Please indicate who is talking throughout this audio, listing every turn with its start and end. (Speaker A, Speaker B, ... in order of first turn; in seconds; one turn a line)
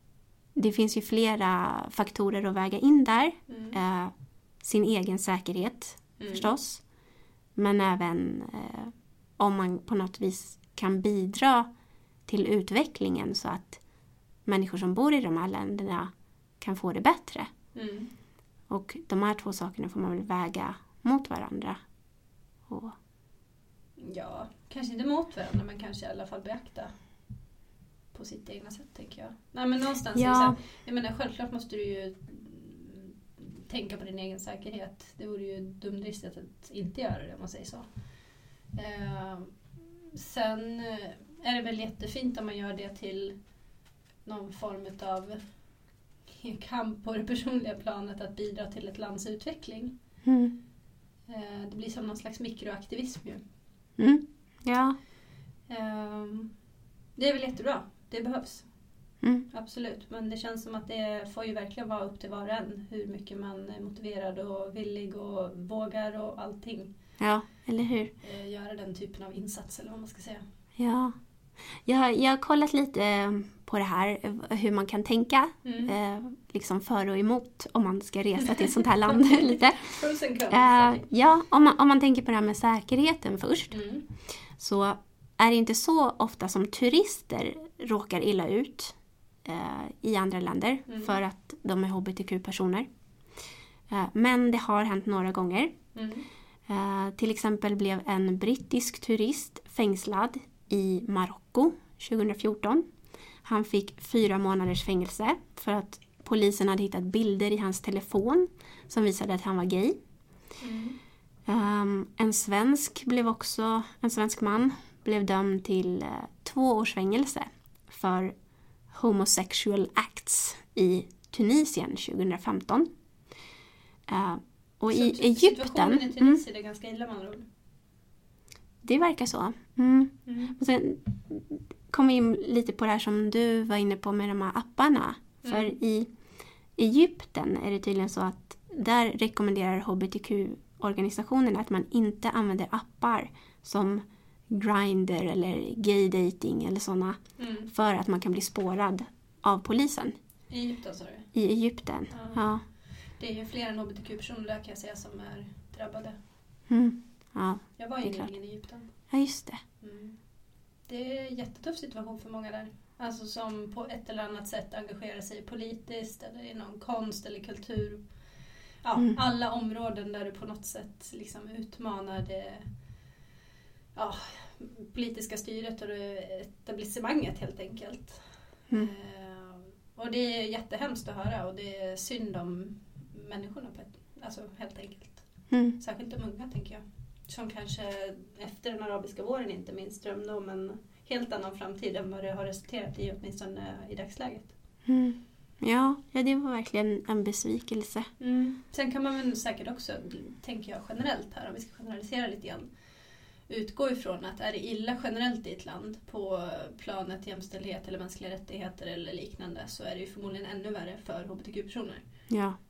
Speaker A: 0.5-6.8
Speaker B: 3.5-3.8
Speaker B: 6.2-6.5
Speaker A: 7.5-11.7
Speaker A: 12.3-13.8
Speaker A: 14.4-17.5
Speaker B: 17.7-18.1
Speaker A: 18.7-21.8
Speaker A: 22.7-22.9
Speaker B: 24.0-26.9
Speaker B: 28.1-37.9
Speaker A: 30.1-30.6
Speaker B: 38.7-39.5
Speaker B: 40.1-43.4
Speaker B: 44.2-45.4
Speaker B: 46.3-49.9
Speaker A: 50.2-50.5
Speaker B: 51.3-53.4
Speaker A: 54.0-55.0
Speaker B: 55.7-56.5
Speaker B: 57.1-58.7
Speaker B: 59.5-66.9
Speaker A: 67.2-68.1
Speaker B: 68.2-70.4
Speaker A: 70.8-71.1
Speaker A: 71.8-79.9
Speaker B: 75.6-75.9
Speaker B: 78.4-81.0
Speaker A: 80.5-83.8
Speaker B: 83.7-84.0
Speaker A: 84.6-92.9
Speaker B: 90.9-91.2
Speaker A: 93.9-95.7
Speaker B: 95.9-96.2
Speaker A: 96.7-102.8
Speaker A: 103.4-110.0
Speaker B: 110.6-111.0
Speaker A: 111.5-118.3
Speaker A: 118.9-122.9
Speaker A: 124.1-126.4
Speaker B: 124.9-127.5
Speaker A: 128.8-136.1
Speaker B: 130.2-130.6
Speaker B: 135.4-135.7
Speaker A: 136.8-147.2
Speaker B: 147.4-147.7
Speaker A: 147.7-150.1
Speaker B: 150.5-151.3
Speaker A: 151.3-152.6
Speaker B: 152.1-152.4
Speaker B: 153.2-156.2
Speaker A: 156.7-158.3
Speaker B: 157.8-158.9
Speaker A: 159.1-159.6
Speaker B: 159.8-160.2
Speaker B: 160.9-168.0
Speaker B: 168.8-172.7
Speaker B: 173.9-178.2
Speaker B: 178.7-185.2
Speaker A: 185.5-185.8
Speaker B: 185.8-194.5
Speaker A: 194.8-198.1
Speaker B: 198.2-202.7
Speaker B: 203.5-212.0
Speaker A: 212.3-212.6